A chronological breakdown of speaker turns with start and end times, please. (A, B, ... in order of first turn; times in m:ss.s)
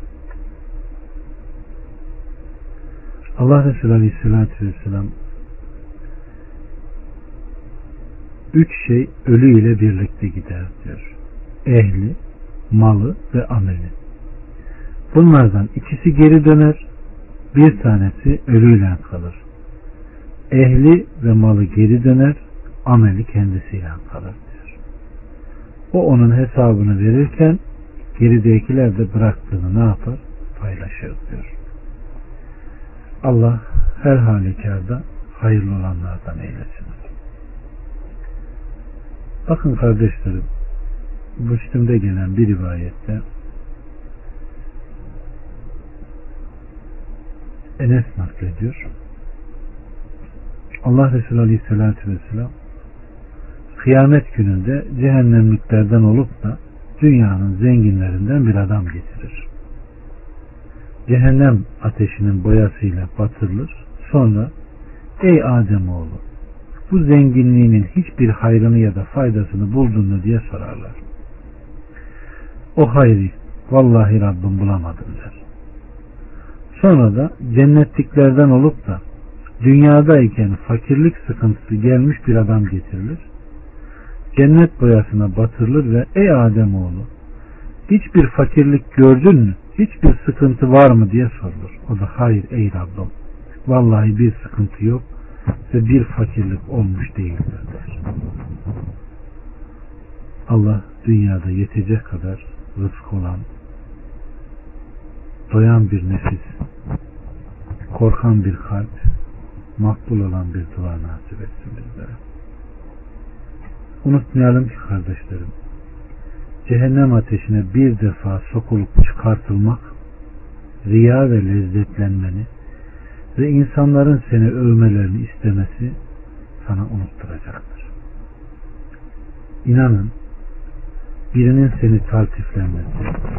0:03.4-0:05.2 A
0:08.5-0:12.2 A
0:12.7-0:14.0 A
0:15.1-0:16.8 A
0:17.5-0:19.4 A
0:20.5-0:24.8 A
0:25.9-0:27.6 A
0:28.2-0:31.5 A
0:33.2-0:37.0 A
0:39.5-0:40.5 A
0:41.4-0:43.2 A
0:47.8-0:48.9 A
0:50.8-0:52.5 A
0:53.7-0:59.5 A
1:01.1-1:04.5 A
1:05.2-1:06.2 A
1:06.9-1:11.0 A
1:12.8-1:15.4 A
1:16.7-1:19.0 A
1:19.6-1:23.3 A
1:24.3-1:27.1 A
1:27.9-1:33.1 A
1:33.7-1:35.1 A
1:35.7-1:38.0 A
1:40.5-1:43.5 A
1:45.5-1:46.6 A
1:47.9-1:49.1 A
1:49.8-1:52.2 A
1:54.0-1:55.5 A
1:56.6-1:59.9 A
2:00.8-2:02.5 A
2:03.4-2:06.0 A
2:06.6-2:07.9 A
2:09.6-2:10.1 A
2:11.3-2:13.2 A